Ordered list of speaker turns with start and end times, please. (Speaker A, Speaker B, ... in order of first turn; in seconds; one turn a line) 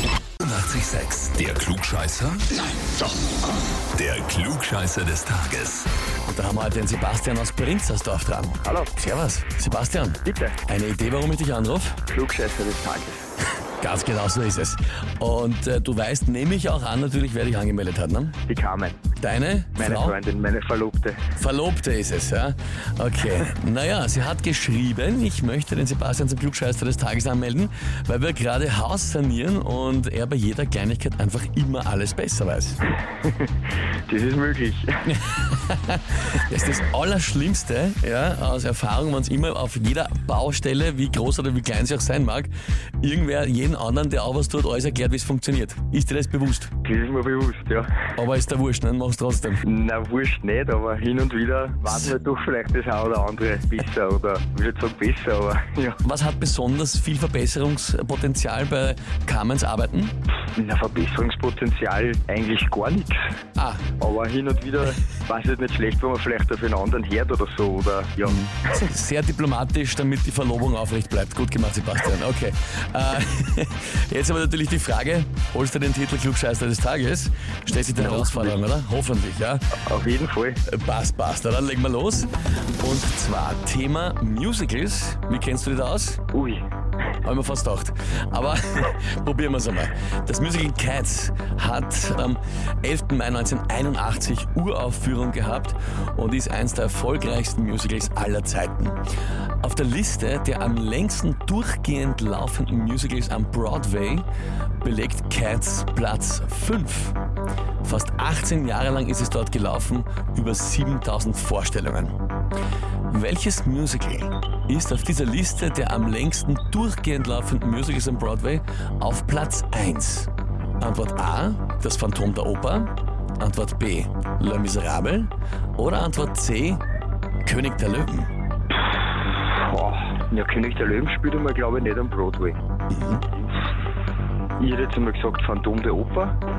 Speaker A: 0.4-3.0
Speaker A: 3.9-5.9
Speaker B: 6.2-12.0
Speaker C: 8.6-8.9
Speaker C: 10.2-10.6
Speaker C: 12.1-13.2
Speaker B: 13.8-18.4
Speaker C: 18.4-19.1
Speaker B: 19.2-20.1
Speaker C: 19.8-21.2
Speaker B: 21.4-32.8
Speaker C: 33.2-33.5
Speaker C: 34.0-35.1
Speaker B: 35.1-42.5
Speaker B: 43.0-46.7
Speaker C: 46.8-47.9
Speaker B: 48.2-49.6
Speaker C: 49.6-56.0
Speaker B: 56.0-60.1
Speaker C: 60.5-63.3
Speaker B: 63.5-63.8
Speaker C: 64.0-68.4
Speaker B: 68.2-79.6
Speaker C: 77.9-78.6
Speaker C: 79.8-80.6
Speaker B: 80.7-86.2
Speaker C: 86.3-86.6
Speaker B: 87.2-99.0
Speaker B: 99.6-104.3
Speaker B: 104.8-107.2
Speaker B: 107.8-112.2
Speaker B: 113.1-120.3
Speaker B: 120.8-126.8
Speaker B: 127.4-128.3
Speaker C: 129.0-132.6
Speaker B: 132.9-133.2
Speaker C: 134.6-136.3